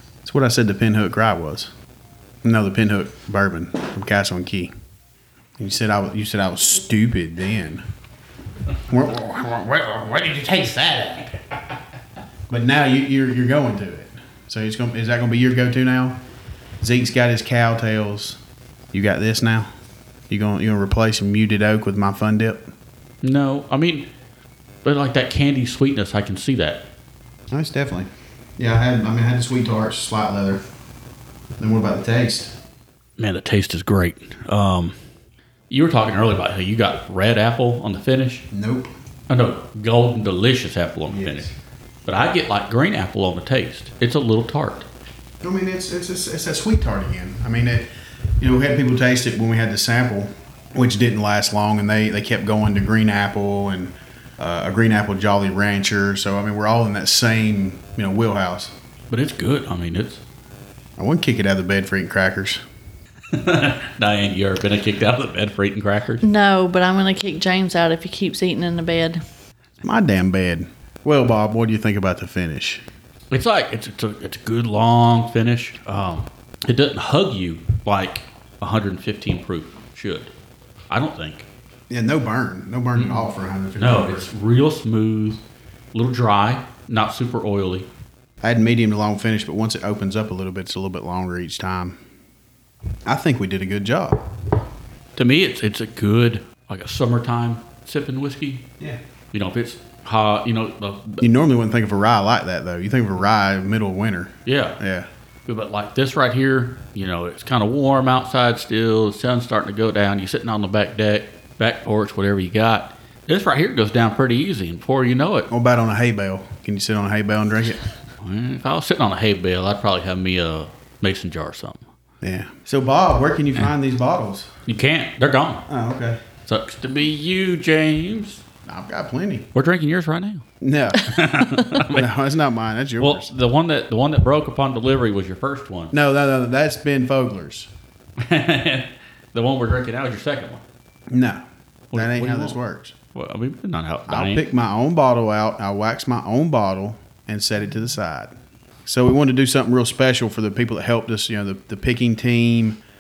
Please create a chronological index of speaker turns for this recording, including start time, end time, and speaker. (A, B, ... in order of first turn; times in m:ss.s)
0:00.2-0:01.7 A
0:02.4-0:04.7 A
0:05.6-0:07.8 A
0:08.9-0:09.6 A
0:09.4-0:11.4 B
0:12.5-0:16.2 A
0:16.8-0:18.4 A
0:18.9-0:19.7 A
0:20.3-0:22.7 A
0:23.2-0:24.1 B
0:24.8-0:26.8 B
0:27.5-0:30.6 A
0:31.6-0:32.5 A
0:33.2-0:35.0 B
0:35.7-0:38.4 B
0:38.5-0:38.9 A
0:39.3-0:41.5 B
0:41.1-0:41.5 A
0:42.1-0:44.9 B
0:45.4-0:47.9 A
0:48.4-0:58.7 A
0:59.1-1:00.2 B
1:01.0-1:02.6 A
1:03.3-1:06.2 B
1:06.2-1:09.2 C
1:09.8-1:12.8 A
1:13.3-1:20.3 B
1:20.9-1:21.5 B
1:21.9-1:24.3 A
1:22.9-1:23.3 B
1:23.8-1:25.4 B
1:25.9-1:27.9 B
1:28.4-1:32.0 A
1:33.1-1:34.3 A
1:35.2-1:38.7 B
1:39.3-1:41.2 B
1:41.2-1:45.1 A
1:44.5-1:44.8 B
1:45.5-1:55.5 B
1:55.5-1:57.8 A
1:58.2-2:01.8 B
2:02.2-2:04.5 A
2:04.7-2:05.6 B
2:05.7-2:06.2 A
2:06.5-2:08.4 B
2:08.7-2:09.5 A
2:09.5-2:12.1 B
2:10.6-2:13.4 A
2:13.0-2:16.0 B
2:15.9-2:17.7 A
2:18.2-2:20.6 B
2:21.1-2:21.4 A
2:21.9-2:22.6 B
2:21.9-2:23.0 A
2:23.1-2:24.5 B
2:24.1-2:28.4 A
2:28.9-2:32.8 A